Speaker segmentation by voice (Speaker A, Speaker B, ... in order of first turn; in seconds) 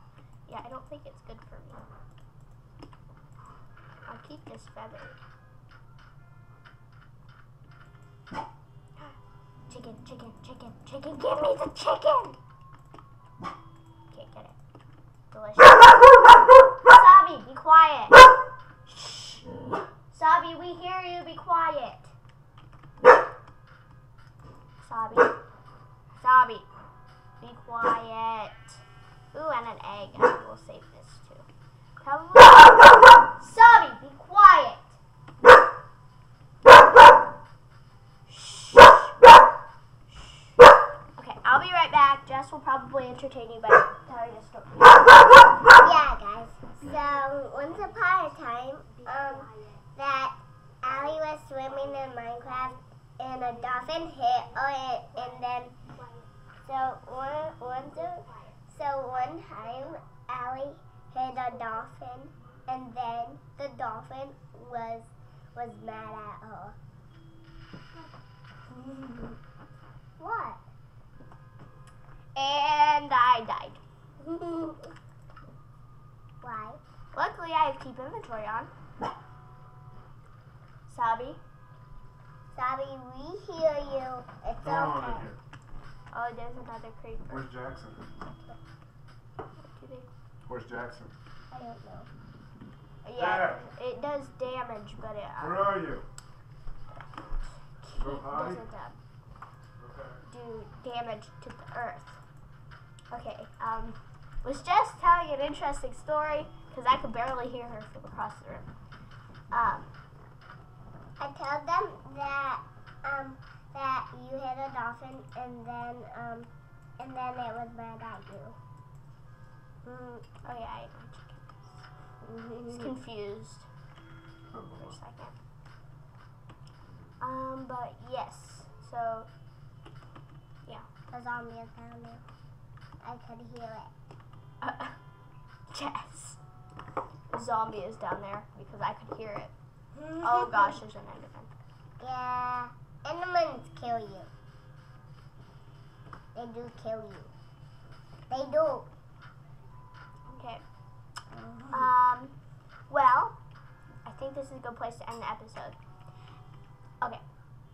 Speaker A: 0.5-1.9, 4.1-5.2, 9.7-12.4, 14.1-14.6, 15.3-15.9, 16.8-18.2, 18.9-19.5, 20.1-22.1, 24.8-25.4, 26.2-26.7, 27.4-28.8, 29.3-31.5, 32.0-35.0, 38.3-39.1, 40.1-40.6, 41.2-45.2, 46.7-48.2, 48.8-49.8, 50.8-52.8, 53.4-60.0, 61.4-61.9, 68.7-69.3, 72.3-73.8, 77.2-78.7, 80.9-81.4, 86.1-87.5, 89.6-90.1, 93.0-95.8, 97.6-99.0, 100.3-102.2, 103.1-108.7, 109.5-109.9, 120.4-121.9, 122.7-123.7, 124.6-125.3, 127.2-129.3, 134.6-135.0, 135.7-136.4, 137.3-139.5, 140.1-141.5, 150.3-150.6, 151.7-152.3, 152.9-153.4, 154.1-155.8
Speaker B: 45.7-55.7, 56.6-66.8, 70.2-70.6, 74.2-74.9, 76.4-76.8, 82.5-85.2, 91.5-92.1, 111.2-118.6, 119.9-120.2, 122.2-122.9, 131.1-132.2, 133.0-133.9, 142.0-144.3, 146.3-147.3, 148.3-148.9, 151.4-151.9
Speaker C: 84.6-85.4, 87.3-88.1, 90.5-91.2, 93.2-93.6, 95.4-96.1, 98.0-98.6, 99.8-100.2